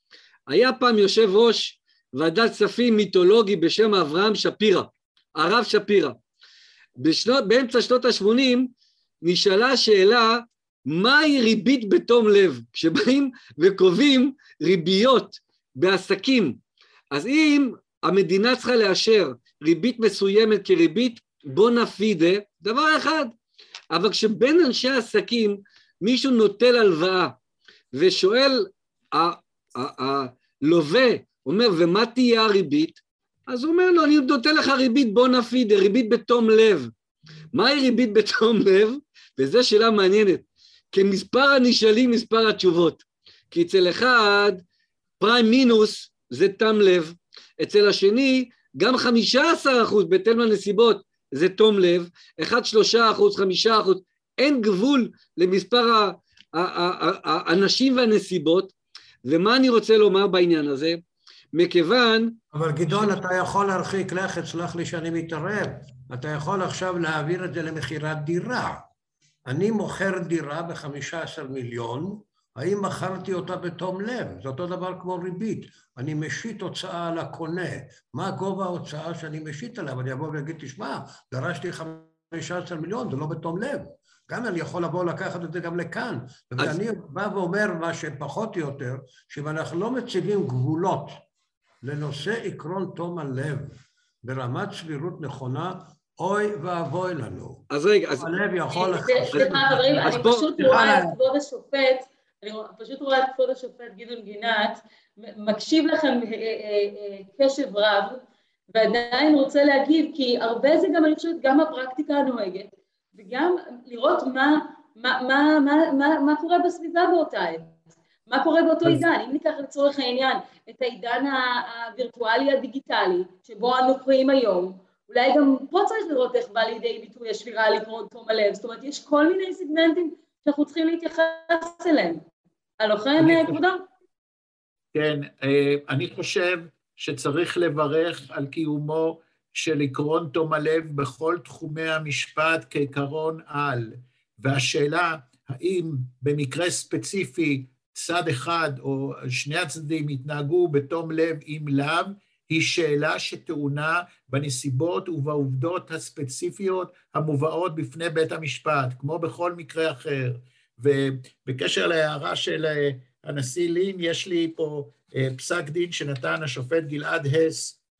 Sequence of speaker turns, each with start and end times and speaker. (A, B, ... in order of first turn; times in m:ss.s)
0:00.5-0:06.2 A
0:07.0-0:08.7 A
0:09.2-0:16.6 A
0:17.1-0:23.3 A
0:23.9-0:27.4 A
0:27.9-0:36.9 A
0:37.5-0:44.6 A
0:45.2-0:58.7 A
0:59.2-1:01.0 A
1:01.5-1:02.4 A
1:02.5-1:08.8 B
1:09.4-1:31.2 B
1:31.8-1:37.6 B
1:37.7-1:38.3 A
1:38.2-1:41.1 B
1:38.7-2:12.2 C
1:40.0-1:40.8 A
2:12.8-2:13.8 C
2:13.2-2:13.6 D
2:14.9-2:47.8 D